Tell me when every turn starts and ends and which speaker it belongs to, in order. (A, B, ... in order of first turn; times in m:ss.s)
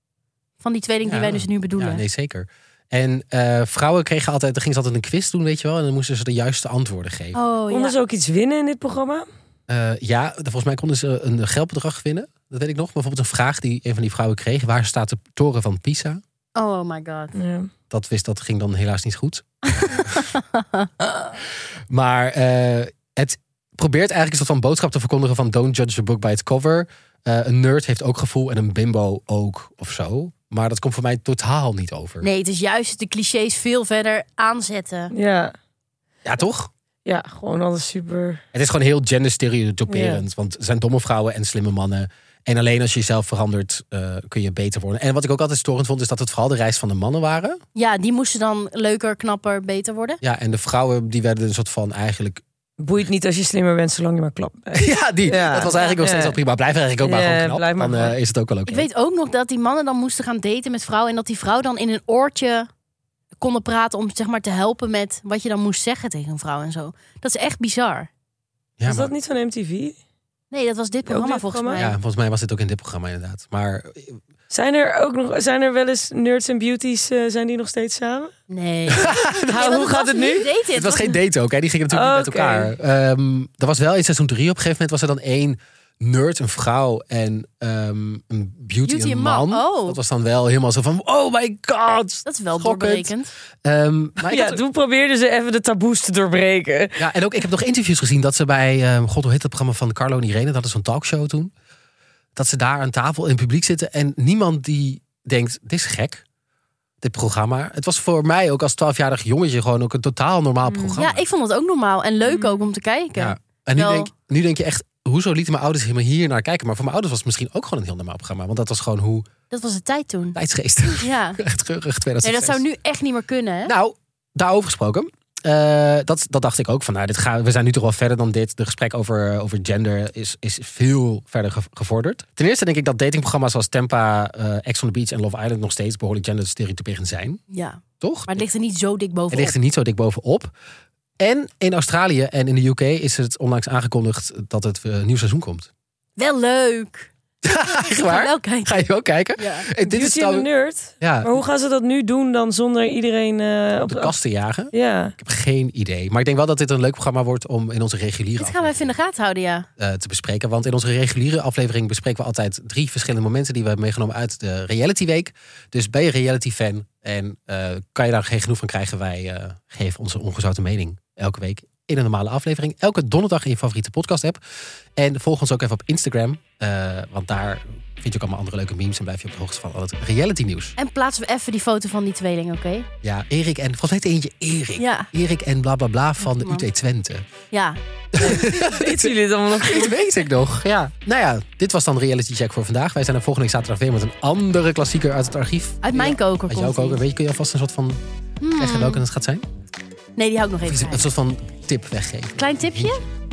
0:00.6-0:02.0 A
0:01.0-0:07.4 B
0:07.3-0:08.0 A
0:07.7-0:09.2 C
0:09.7-0:16.2 B
0:16.5-0:17.3 A
0:17.3-0:17.7 C
0:17.9-0:20.2 B
0:20.1-0:20.9 A
0:21.9-0:32.3 B
0:32.2-0:35.1 A
0:35.1-0:35.5 C
0:36.2-0:36.7 B
0:37.0-0:38.4 C
0:38.5-0:47.6 B
0:39.9-0:40.2 C
0:47.7-0:50.2 A
0:50.2-0:52.4 B
0:52.8-0:56.4 C
0:54.7-0:58.9 B
0:55.5-0:56.0 A
0:57.0-0:58.2 C
0:58.7-1:02.7 A
1:03.4-1:08.1 A
1:08.8-1:09.1 B
1:08.8-1:10.0 C
1:10.5-1:12.0 A
1:11.0-1:11.8 C
1:11.8-1:14.2 B
1:14.5-1:18.3 C
1:18.5-1:21.2 A
1:18.9-1:19.7 B
1:19.5-1:20.5 C
1:20.7-1:33.1 B
1:21.9-1:22.7 C
1:28.8-1:30.0 A
1:32.2-1:33.3 A
1:33.6-1:34.6 B
1:34.2-1:37.0 C
1:37.0-1:41.5 B
1:42.4-1:46.2 B
1:47.0-1:51.2 B
1:50.6-1:51.0 C
1:51.0-1:54.1 A
1:52.2-1:52.7 C
1:53.2-1:59.3 B
1:59.5-2:00.4 A
2:00.3-2:02.6 B
2:01.0-2:01.4 A
2:02.2-2:03.7 A
2:03.6-2:17.4 B
2:17.5-2:19.5 A
2:18.0-2:18.4 B
2:19.3-2:20.5 B
2:21.2-2:25.7 B
2:26.2-2:29.7 A
2:27.4-2:30.5 B
2:29.8-2:34.1 C
2:31.0-2:31.3 B
2:33.8-2:39.0 B
2:34.7-2:35.1 C
2:38.4-2:39.7 A
2:39.8-2:54.4 B
2:55.0-3:00.7 B
3:00.8-3:02.9 A
3:03.0-3:07.3 B
3:04.8-3:05.1 A
3:06.2-3:06.6 A
3:07.5-3:07.8 A
3:08.1-3:18.0 B
3:08.2-3:09.9 C
3:15.8-3:17.0 A
3:18.4-3:19.0 A
3:18.6-3:19.4 B
3:20.2-3:21.0 A
3:20.6-3:23.0 B
3:22.4-3:23.0 A